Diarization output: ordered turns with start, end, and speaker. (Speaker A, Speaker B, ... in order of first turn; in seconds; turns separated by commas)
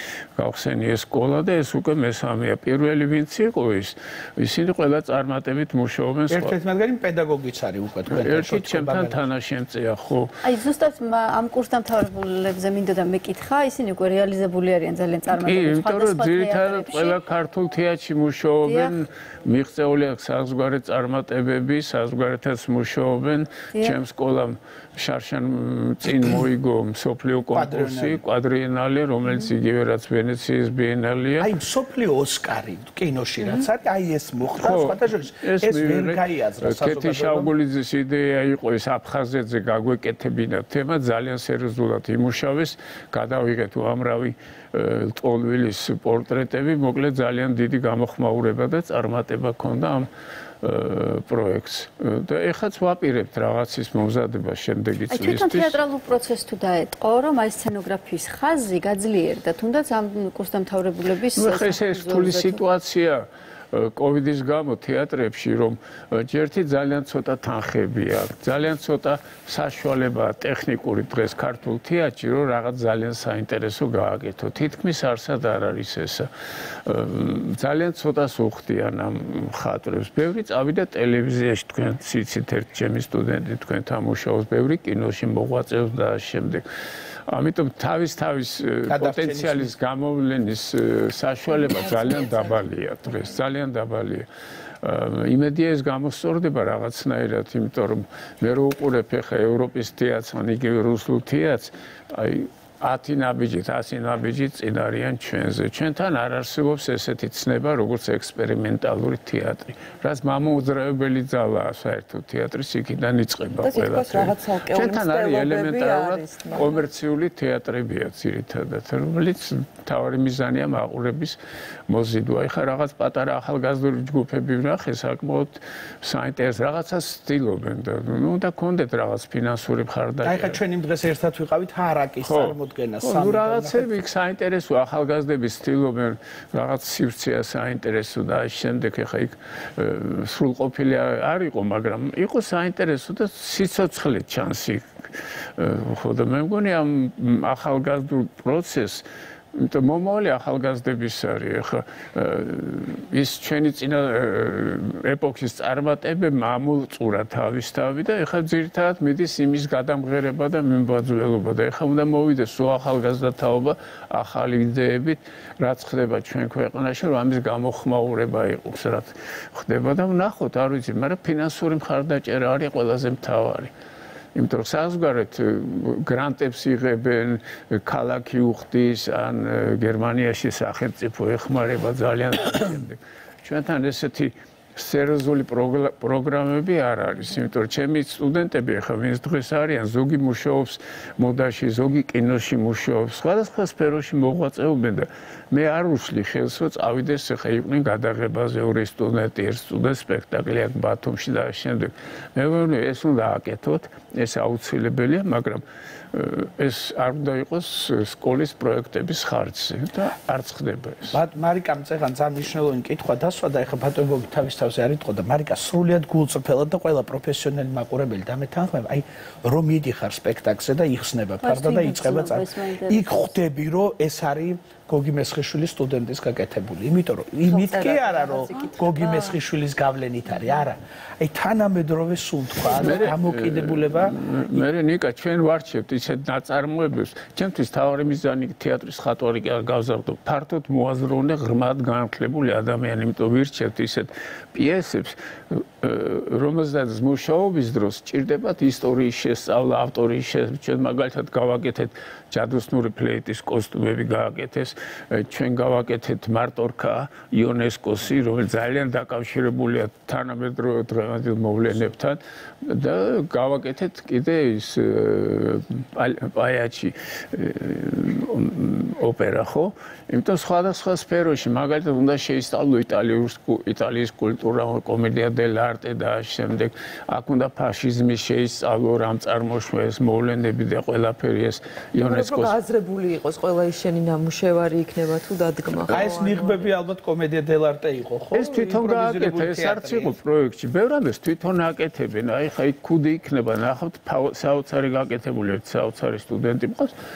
Speaker A: 0.4-6.6, Speaker B: 6.3-9.2, Speaker A: 8.1-10.4, Speaker C: 10.4-17.2, Speaker A: 15.3-31.5, Speaker C: 18.6-18.9, Speaker B: 27.5-28.2, Speaker B: 31.4-37.5, Speaker A: 34.6-50.1, Speaker A: 50.6-55.8, Speaker C: 55.1-62.6, Speaker A: 61.3-76.3, Speaker A: 76.8-86.7, Speaker A: 87.3-94.3, Speaker B: 88.9-89.7, Speaker C: 91.6-92.4, Speaker A: 94.8-130.6, Speaker D: 113.6-116.8, Speaker B: 130.2-133.9, Speaker A: 132.2-173.7, Speaker A: 174.3-205.6, Speaker A: 206.1-211.2, Speaker B: 211.1-234.2, Speaker C: 221.4-223.1, Speaker D: 227.4-229.4, Speaker A: 232.7-282.6, Speaker D: 282.0-286.7, Speaker B: 285.9-290.2, Speaker A: 288.3-296.9